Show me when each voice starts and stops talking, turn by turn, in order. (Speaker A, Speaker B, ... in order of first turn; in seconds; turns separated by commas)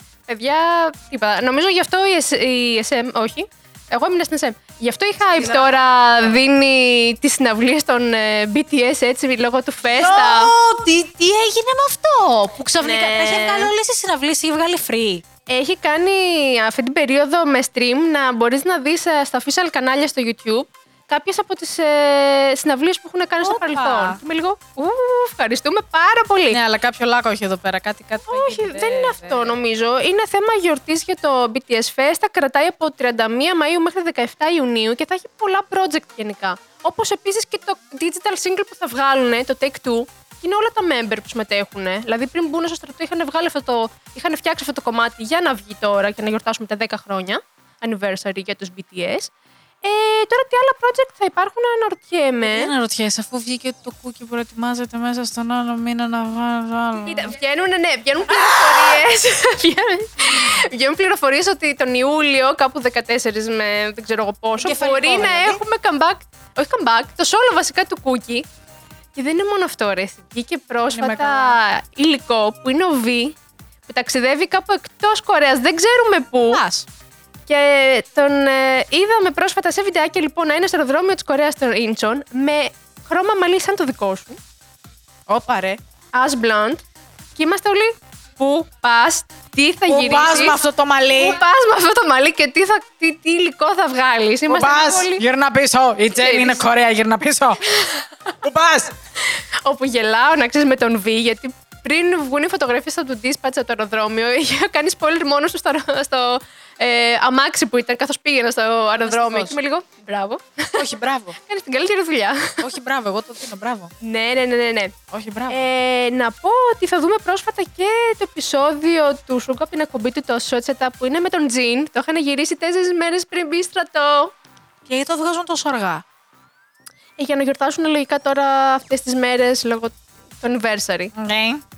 Speaker A: 0.3-10.5, Speaker B: 5.2-6.4, Speaker B: 9.9-15.2, Speaker A: 12.8-13.7, Speaker A: 15.5-26.6, Speaker B: 23.4-24.2, Speaker B: 26.5-29.6, Speaker A: 28.2-49.3, Speaker A: 49.8-52.7, Speaker B: 52.4-57.4, Speaker A: 57.0-68.4, Speaker B: 58.3-59.0, Speaker B: 64.6-65.6, Speaker A: 69.1-76.6, Speaker B: 70.9-71.6, Speaker B: 76.5-76.9, Speaker A: 77.5-84.4, Speaker B: 85.3-85.8, Speaker A: 86.1-86.8, Speaker A: 87.3-90.6, Speaker B: 89.9-91.4, Speaker A: 91.1-95.2, Speaker B: 94.5-97.6, Speaker A: 96.1-96.6, Speaker A: 97.6-98.3, Speaker B: 98.4-98.9, Speaker A: 99.2-110.8, Speaker B: 109.0-109.6, Speaker B: 110.7-111.4, Speaker A: 111.4-112.6, Speaker B: 112.6-113.9, Speaker A: 114.0-115.0, Speaker B: 115.1-115.6, Speaker A: 115.5-124.3, Speaker B: 124.8-126.0, Speaker A: 127.2-131.1, Speaker B: 131.1-131.6